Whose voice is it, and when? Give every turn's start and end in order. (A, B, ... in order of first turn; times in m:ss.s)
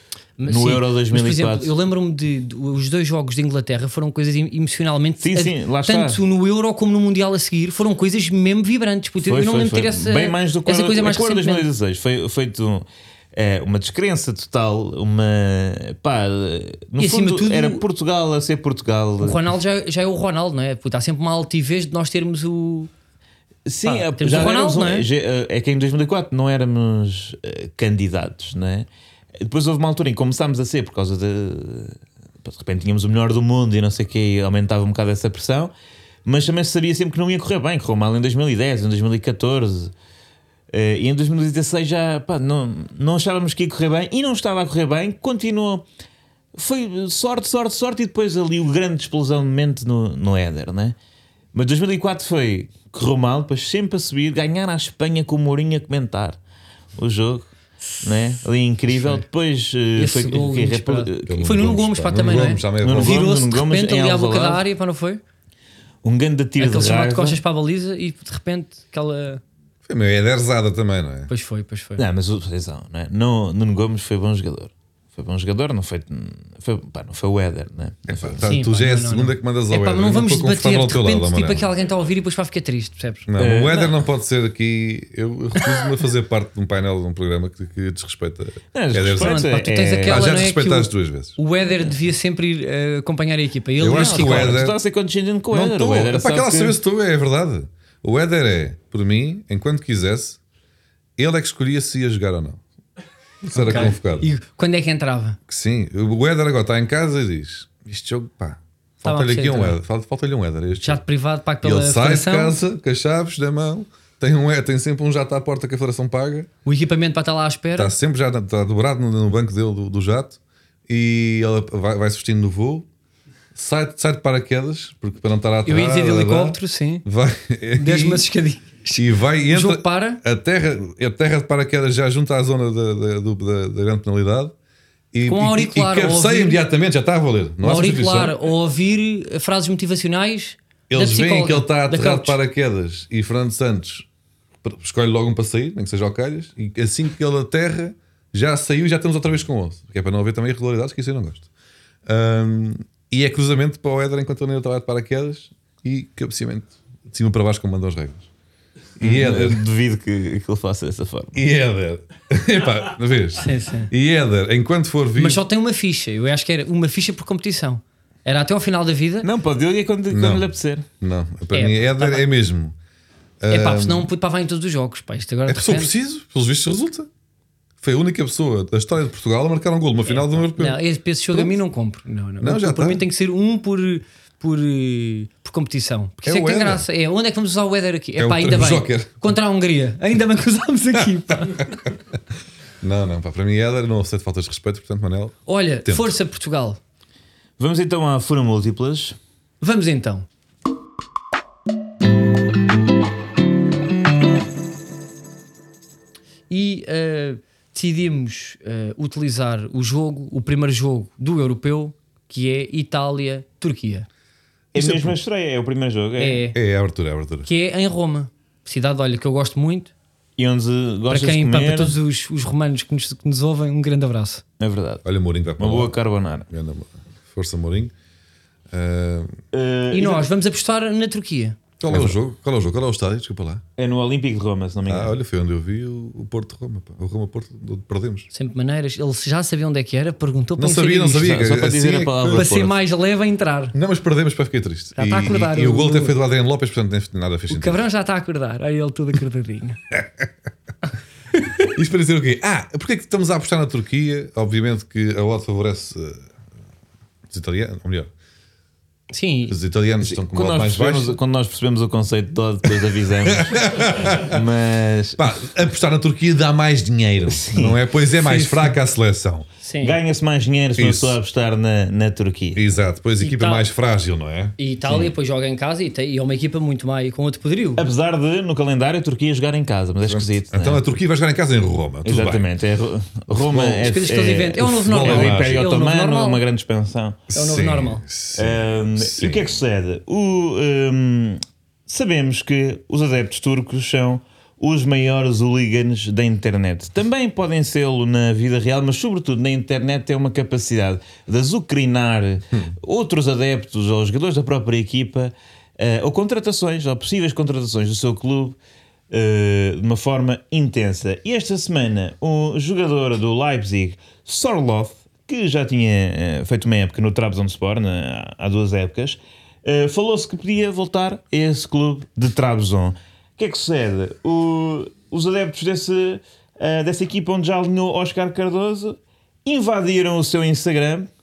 0:00.4-0:11.6 A
0:00.5-0:01.7 B
0:05.2-0:06.2 B
0:09.2-0:19.4 B
0:17.0-0:17.8 A
0:19.2-0:22.9 A
0:23.6-0:28.9 B
0:23.8-0:25.0 A
0:29.4-0:35.7 B
0:36.2-0:39.9 B
0:40.7-0:45.8 B
0:46.5-0:50.9 B
0:51.5-0:56.4 B
0:57.0-0:57.5 B
0:58.0-1:01.6 B
0:58.9-0:59.2 A
1:00.0-1:05.2 A
1:01.2-1:03.2 C
1:02.8-1:04.6 B
1:06.0-1:07.4 B
1:06.6-1:09.4 A
1:09.9-1:11.3 C
1:11.3-1:12.0 A
1:12.0-1:18.4 B
1:18.1-1:21.6 C
1:18.4-1:23.2 A
1:23.3-1:29.4 C
1:23.4-1:24.0 B
1:28.7-1:30.2 B
1:29.2-1:34.6 A
1:30.0-1:31.4 C
1:33.8-1:34.8 C
1:33.9-1:36.8 B
1:35.5-1:40.4 C
1:41.2-1:42.6 C
1:43.5-1:44.3 C
1:43.5-1:45.4 A
1:45.5-1:51.0 C
1:49.0-1:49.8 A
1:50.8-1:52.6 A
1:51.6-1:56.5 C
1:56.6-1:57.9 A
1:57.8-2:02.9 C
2:03.5-2:08.2 C
2:05.6-2:07.0 A
2:07.8-2:10.2 A
2:09.0-2:14.5 C
2:15.1-2:18.4 C
2:15.2-2:16.6 A
2:17.6-2:22.4 A
2:20.9-2:24.1 C
2:24.6-2:31.5 C
2:32.0-2:38.3 C
2:39.0-2:39.6 C
2:39.0-2:41.4 B
2:41.3-2:45.4 C
2:43.4-2:43.9 A
2:45.2-2:49.3 A
2:49.2-2:50.8 B
2:50.1-2:50.5 C
2:51.0-2:52.7 C
2:51.5-2:52.2 A
2:53.4-2:54.1 C
2:53.5-2:55.9 A
2:55.5-2:57.1 C
2:57.8-3:00.8 C
3:00.0-3:11.7 A
3:01.3-3:01.6 C
3:02.4-3:03.0 C
3:06.2-3:06.8 C
3:08.2-3:09.1 C
3:11.5-3:11.9 C
3:12.8-3:16.1 C
3:15.4-3:16.8 A
3:17.6-3:19.2 B
3:19.6-3:20.2 A
3:26.5-3:34.1 A
3:34.7-3:35.2 C
3:34.7-3:36.4 B
3:36.2-3:36.6 A
3:36.5-3:37.5 C
3:37.4-3:39.9 A
3:40.4-3:42.0 B
3:41.1-3:44.4 A
3:44.6-3:45.0 B
3:45.0-3:45.9 C
3:45.6-3:46.5 B
3:46.5-3:47.9 C
3:48.7-3:49.4 C
3:49.5-3:50.3 B
3:49.9-3:51.6 A
3:51.8-3:53.6 C
3:51.9-3:52.1 B
3:53.8-3:55.1 B
3:54.9-3:58.3 C
3:58.3-4:01.3 A
4:00.6-4:02.5 C
4:01.1-4:02.7 B
4:02.3-4:03.7 A
4:03.7-4:07.8 C
4:05.0-4:06.1 A
4:07.5-4:09.8 A
4:09.9-4:10.2 C
4:11.8-4:16.2 C
4:17.3-4:18.1 C
4:19.1-4:19.5 A
4:19.5-4:21.2 C
4:20.0-4:25.2 B
4:23.2-4:24.4 C
4:25.2-4:29.5 C
4:27.3-4:27.8 B
4:28.2-4:28.7 A
4:29.6-4:30.0 A
4:29.8-4:32.7 B
4:30.8-4:31.2 C
4:32.5-4:34.6 C
4:33.2-4:33.6 A
4:34.6-4:37.8 A
4:37.8-4:40.8 B
4:40.0-4:42.4 C
4:42.0-4:47.2 B
4:43.3-4:43.9 C
4:43.8-4:46.4 A
4:44.6-4:45.7 C
4:47.3-4:49.5 C
4:47.3-4:48.0 A
4:48.4-5:08.6 B
5:09.1-5:31.1 B